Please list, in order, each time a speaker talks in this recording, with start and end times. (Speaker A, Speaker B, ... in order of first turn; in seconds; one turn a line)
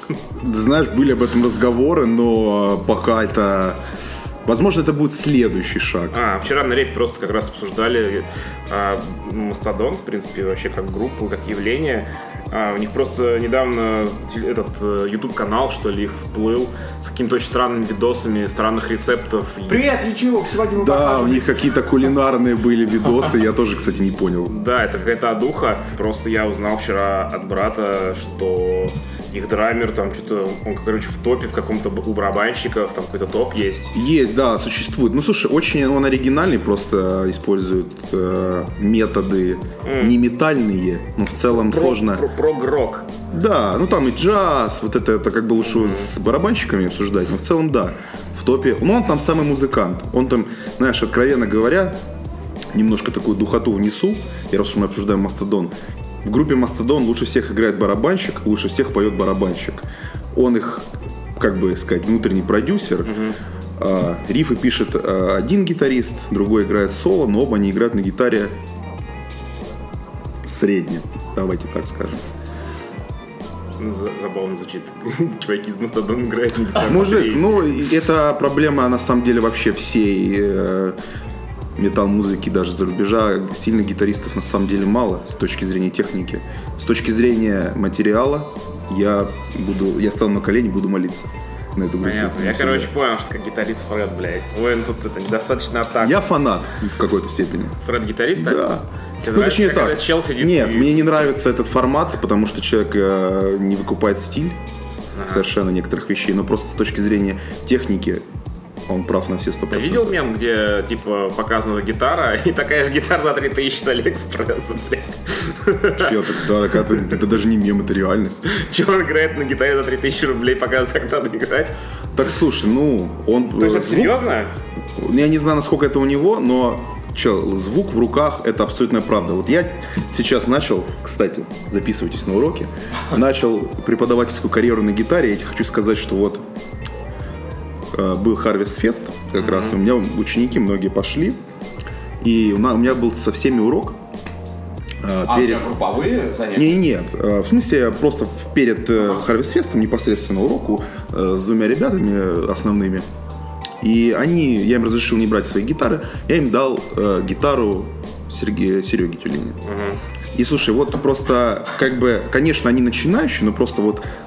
Speaker A: 0.4-3.8
Speaker A: 4.5-6.2
Speaker B: 6.1-19.9
Speaker C: 19.7-21.6
Speaker A: 20.8-24.5
Speaker B: 24.5-34.0
Speaker A: 33.9-42.3
Speaker B: 39.8-40.2
Speaker B: 41.5-43.1
Speaker A: 43.3-52.0
Speaker B: 45.7-46.1
Speaker A: 52.7-55.7
Speaker A: 56.2-63.2
Speaker B: 63.0-63.4
Speaker A: 63.8-68.5
Speaker A: 70.4-72.2
Speaker B: 73.8-77.6
Speaker A: 76.8-81.0
Speaker A: 81.8-92.9
Speaker B: 92.0-96.3
Speaker A: 96.0-97.8
Speaker B: 97.8-98.7
Speaker A: 98.3-104.6
Speaker B: 99.2-101.2
Speaker B: 105.2-105.5
Speaker A: 105.3-108.2
Speaker A: 108.9-110.2
Speaker B: 109.7-117.0
Speaker A: 115.9-118.5
Speaker B: 118.5-121.8
Speaker A: 122.1-124.2
Speaker B: 123.6-124.5
Speaker A: 125.0-136.4
Speaker A: 137.9-141.4
Speaker B: 139.4-139.8
Speaker A: 142.2-144.0
Speaker A: 145.0-145.7
Speaker C: 145.3-146.8
Speaker A: 146.6-153.1
Speaker C: 149.0-149.3
Speaker A: 153.8-159.6
Speaker B: 159.7-160.0
Speaker A: 160.3-164.0